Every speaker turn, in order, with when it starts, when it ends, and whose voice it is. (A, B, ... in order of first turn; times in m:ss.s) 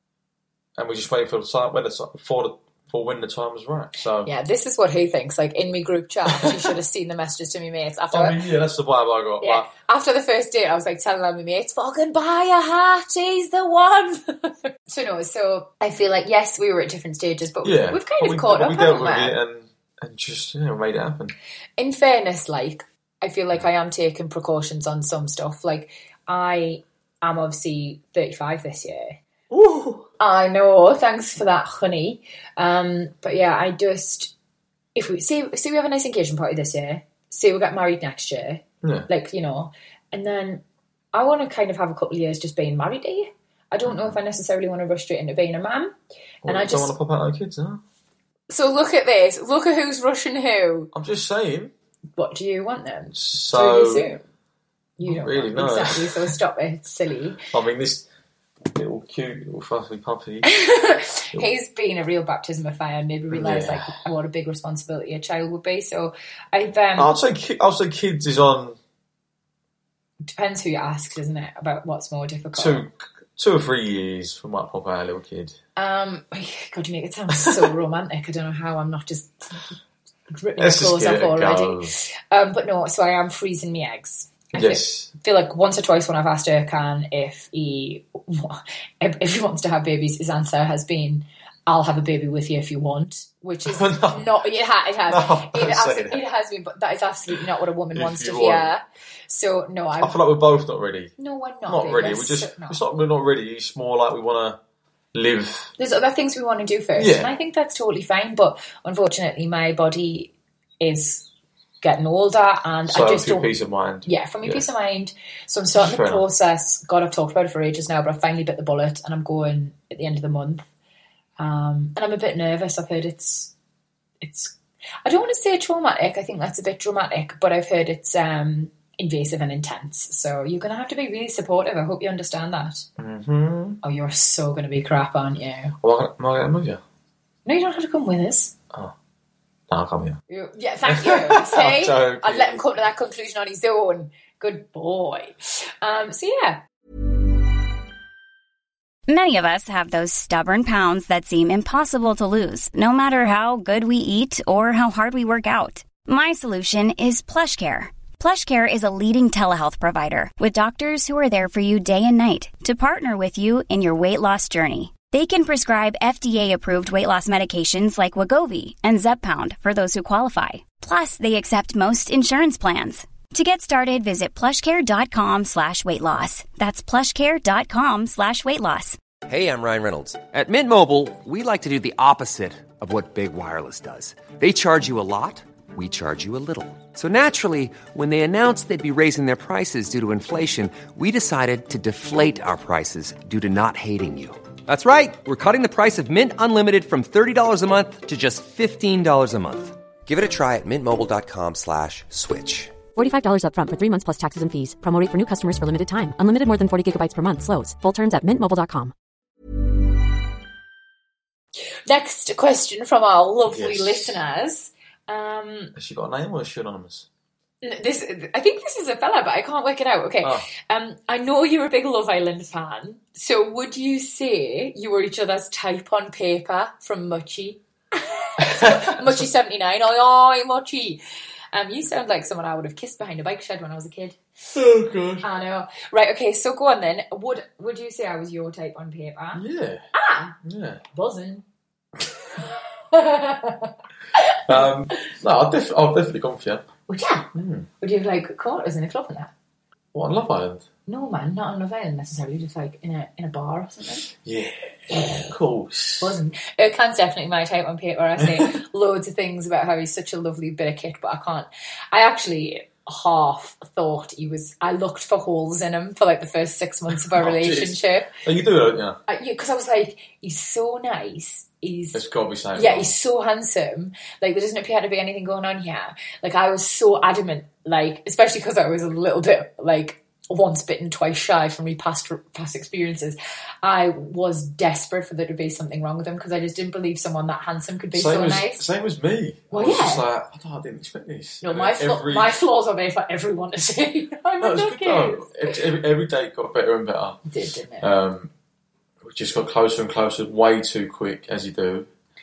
0:00.8-0:04.3 A
0:04.2-0:08.4 B
0:06.3-0:06.6 A
0:08.1-0:09.7 A
0:09.4-0:19.4 B
0:17.6-0:21.3 A
0:21.8-0:29.2 B
0:29.5-0:30.1 A
0:30.2-0:34.3 B
0:35.0-0:46.9 B
0:38.8-0:39.1 A
0:43.9-0:44.2 A
0:46.4-0:47.8 A
0:48.5-0:50.9 B
0:50.9-0:51.7 A
0:52.2-0:54.2 B
0:53.1-0:54.1 A
0:55.0-0:57.5 B
0:55.0-0:56.3 A
0:57.5-0:58.1 A
0:58.7-1:00.5 A
1:00.4-1:07.1 B
1:03.3-1:03.9 A
1:07.0-1:08.8 A
1:10.2-1:12.8 B
1:12.5-1:15.6 A
1:15.8-1:19.6 B
1:20.3-1:40.2 B
1:20.6-1:21.9 A
1:24.5-1:25.1 A
1:33.6-1:34.3 A
1:35.1-1:36.2 A
1:37.9-1:38.7 A
1:40.0-1:41.1 A
1:41.2-1:42.8 B
1:41.7-1:44.6 A
1:45.1-1:45.7 A
1:45.8-1:51.3 B
1:47.0-1:47.3 A
1:51.8-1:53.5 B
1:52.9-1:54.6 A
1:54.0-2:00.7 B
1:55.7-1:56.2 A
2:01.4-2:03.5 B
2:04.2-2:12.9 B
2:13.0-2:13.8 A
2:13.8-2:15.8 B
2:15.8-2:16.8 A
2:17.5-2:18.5 B
2:19.7-2:20.2 A
2:20.3-2:26.6 B
2:20.8-2:22.7 A
2:29.1-2:59.0 C
2:59.3-3:22.8 D
3:23.0-3:28.9 E
3:31.9-3:35.7 B
3:33.5-3:34.2 A
3:35.8-3:37.1 A
3:37.6-3:51.0 B
3:40.2-3:40.5 A
3:48.4-3:49.1 A
3:51.5-3:54.2 B
3:54.5-3:55.3 A
3:55.2-3:59.4 B
3:59.3-3:59.9 A
3:59.9-4:00.4 B
4:00.4-4:00.8 A
4:00.9-4:01.4 B
4:02.4-4:04.7 B
4:04.4-4:06.7 A
4:06.9-4:09.3 B
4:07.3-4:07.7 A
4:09.9-4:10.7 A
4:10.9-4:14.1 B
4:14.1-4:16.2 A
4:16.0-4:28.1 B
4:27.1-4:29.0 A
4:29.1-4:32.0 B
4:31.9-4:32.9 A
4:32.5-4:48.6 B
4:47.9-4:52.3 A
4:49.5-4:50.0 B
4:51.4-4:55.6 B
4:54.4-4:57.2 A
4:57.3-4:57.9 B
4:57.8-4:58.3 A
4:59.0-5:01.9 A